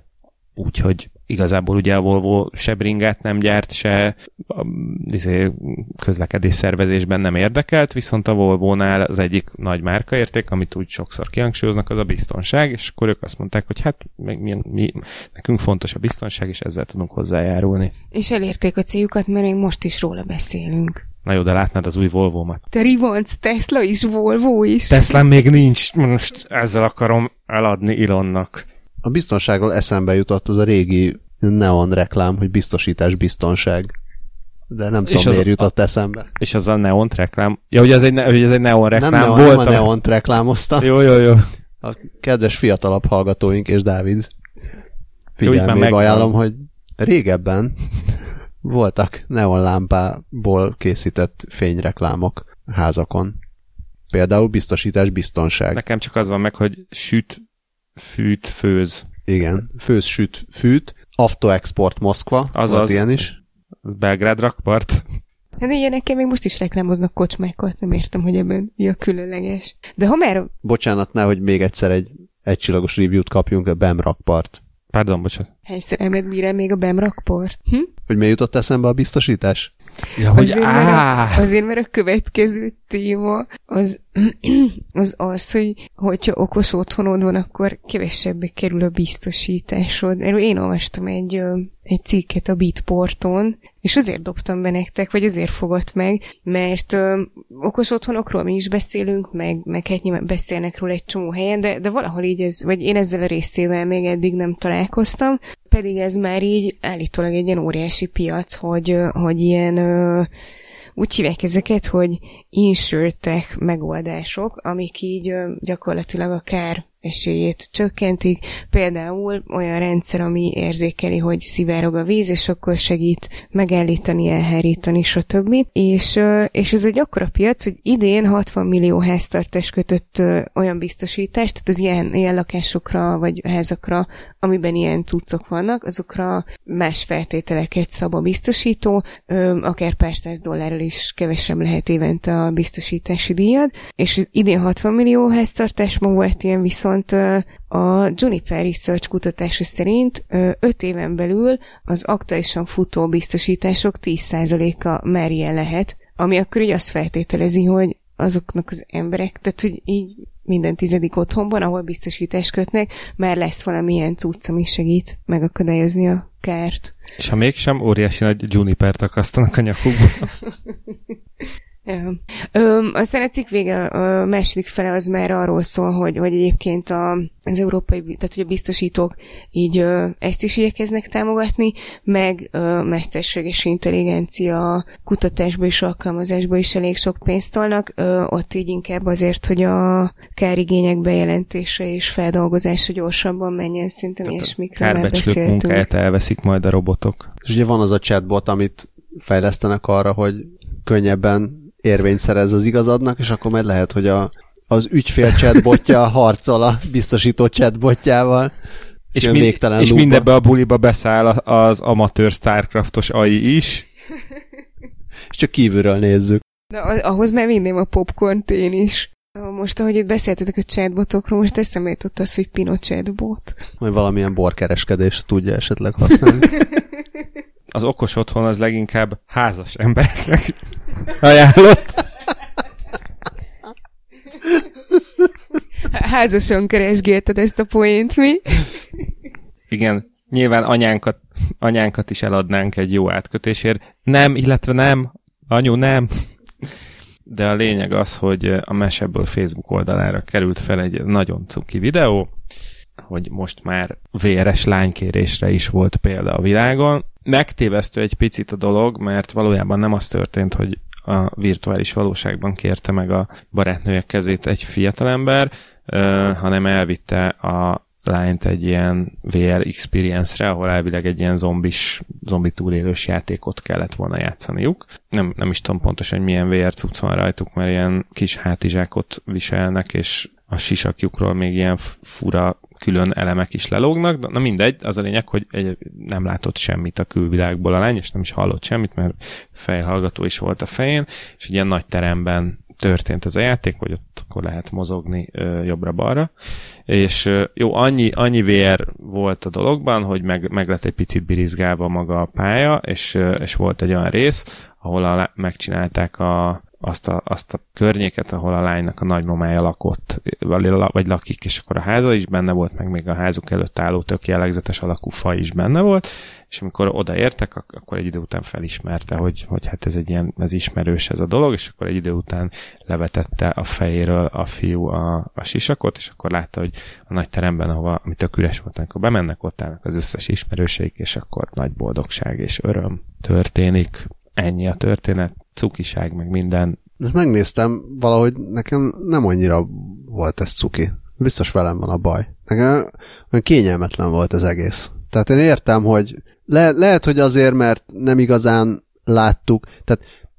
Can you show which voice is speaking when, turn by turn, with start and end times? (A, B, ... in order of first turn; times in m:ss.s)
0:00.6-0:17.9 A
0:18.1-0:21.0 B
0:21.2-0:22.6 A
0:22.7-0:25.2 B
0:24.9-0:28.6 A
0:29.0-0:33.9 C
0:34.7-0:36.3 C
0:35.1-0:35.7 A
0:36.4-0:39.9 A
0:38.9-0:40.9 C
0:40.8-0:41.5 A
0:41.8-0:44.3 C
0:45.4-0:53.4 C
0:45.4-0:46.3 A
0:54.1-0:55.8 C
0:55.7-0:57.4 A
0:58.0-0:59.0 A
0:59.3-1:03.4 C
1:02.5-1:03.3 A
1:03.8-1:05.0 A
1:05.6-1:10.5 B
1:10.6-1:14.6 C
1:14.9-1:15.5 A
1:15.7-1:17.9 B
1:18.1-1:19.7 C
1:20.2-1:21.5 A
1:20.3-1:50.3 B
1:51.0-2:46.9 B
2:47.2-2:50.3 A
2:51.9-3:15.9 B
3:14.3-3:17.3 A
3:17.4-3:28.5 C
3:29.2-3:33.9 A
3:29.2-3:30.3 C
3:35.3-3:36.4 C
3:36.7-3:43.6 B
3:43.8-3:46.6 C
3:47.7-3:52.1 A
3:55.8-3:58.7 B
3:59.7-4:06.7 A
4:07.3-4:12.3 A
4:13.1-4:56.3 A
4:56.9-5:36.8 A
5:37.0-5:50.0 C